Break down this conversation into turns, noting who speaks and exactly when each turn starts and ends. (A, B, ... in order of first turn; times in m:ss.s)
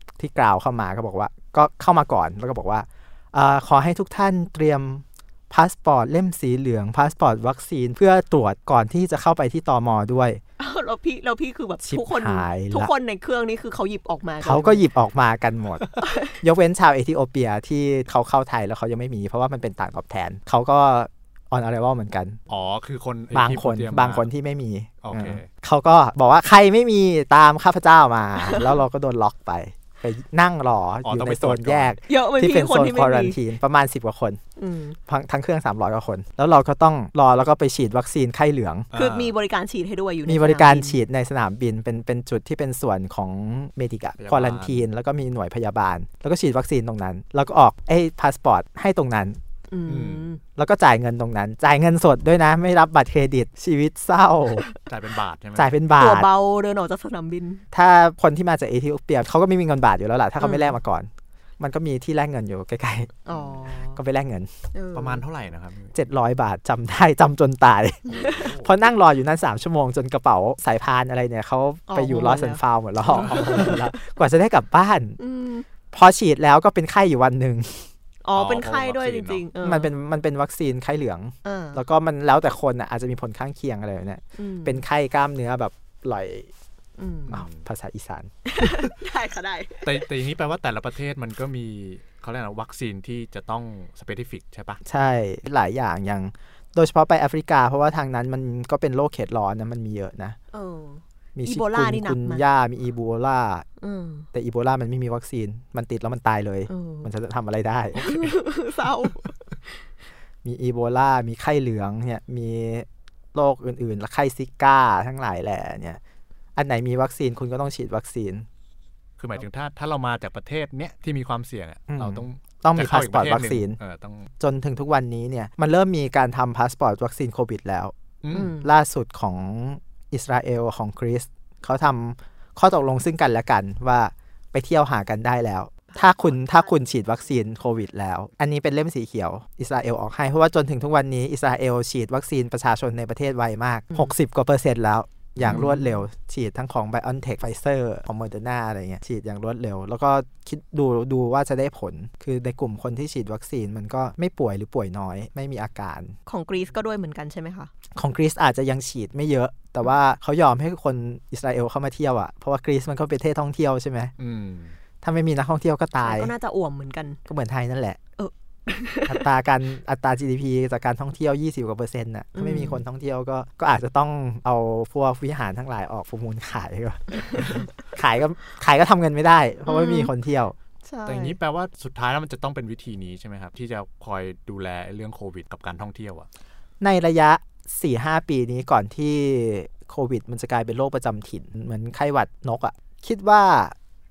0:00.2-0:10.4 A
0:10.6-0:14.8 B
0:11.8-0:12.9 A
0:14.4-0:22.4 A
0:16.0-0:16.4 B
0:22.5-0:24.3 C
0:23.3-0:34.4 A
0:25.0-0:25.5 C
0:28.4-0:28.8 B
0:31.0-0:32.0 C
0:32.1-0:33.4 B
0:34.6-0:35.0 B
0:35.1-0:38.9 A
0:38.9-0:39.3 C
0:38.9-0:41.0 B
0:40.3-0:49.4 A
0:44.2-0:44.9 C
0:49.7-0:50.4 B
0:49.9-0:50.3 C
0:50.6-0:54.6 A
0:54.5-0:54.8 B
0:54.9-0:55.7 C
0:55.6-0:56.3 A
0:56.0-0:57.6 B
0:57.7-1:03.2 A
1:00.4-1:00.8 B
1:03.3-1:04.0 B
1:03.3-1:03.7 C
1:04.0-1:04.5 A
1:04.7-1:05.2 B
1:04.9-1:06.0 C
1:05.9-1:15.2 A
1:08.1-1:08.5 B
1:08.1-1:08.7 C
1:11.9-1:14.0 B
1:13.1-1:13.8 C
1:15.2-1:15.7 B
1:15.9-1:17.9 A
1:18.2-1:19.9 B
1:18.4-1:19.5 C
1:19.6-1:26.5 A
1:21.4-1:21.8 B
1:24.4-1:24.8 B
1:27.0-1:27.4 B
1:27.3-1:27.7 C
1:27.3-1:28.3 A
1:28.5-1:30.1 B
1:29.8-1:34.8 C
1:34.8-1:40.4 A
1:40.5-1:42.4 B
1:41.4-1:43.7 A
1:43.8-1:44.3 B
1:44.3-1:48.0 A
1:46.7-1:47.1 B
1:47.9-1:48.4 C
1:48.0-1:49.8 B
1:50.4-1:56.0 A
1:56.6-1:58.5 A
1:59.2-2:04.3 C
2:01.9-2:03.8 A
2:04.4-2:36.2 A
2:08.2-2:08.5 C
2:08.3-2:08.7 B
2:15.9-2:16.7 B
2:25.4-2:25.8 C
2:25.5-2:26.0 B
2:36.3-2:37.7 B
2:38.0-2:44.1 A
2:44.2-2:44.8 C
2:45.0-2:46.3 A
2:46.0-2:47.2 B
2:47.3-2:48.0 A
2:48.2-2:49.3 B
2:49.1-3:00.6 A
2:52.4-2:52.8 B
2:57.2-2:57.7 B
2:59.7-3:00.1 B
3:00.8-3:01.4 B
3:01.1-3:06.3 C
3:06.8-3:13.8 A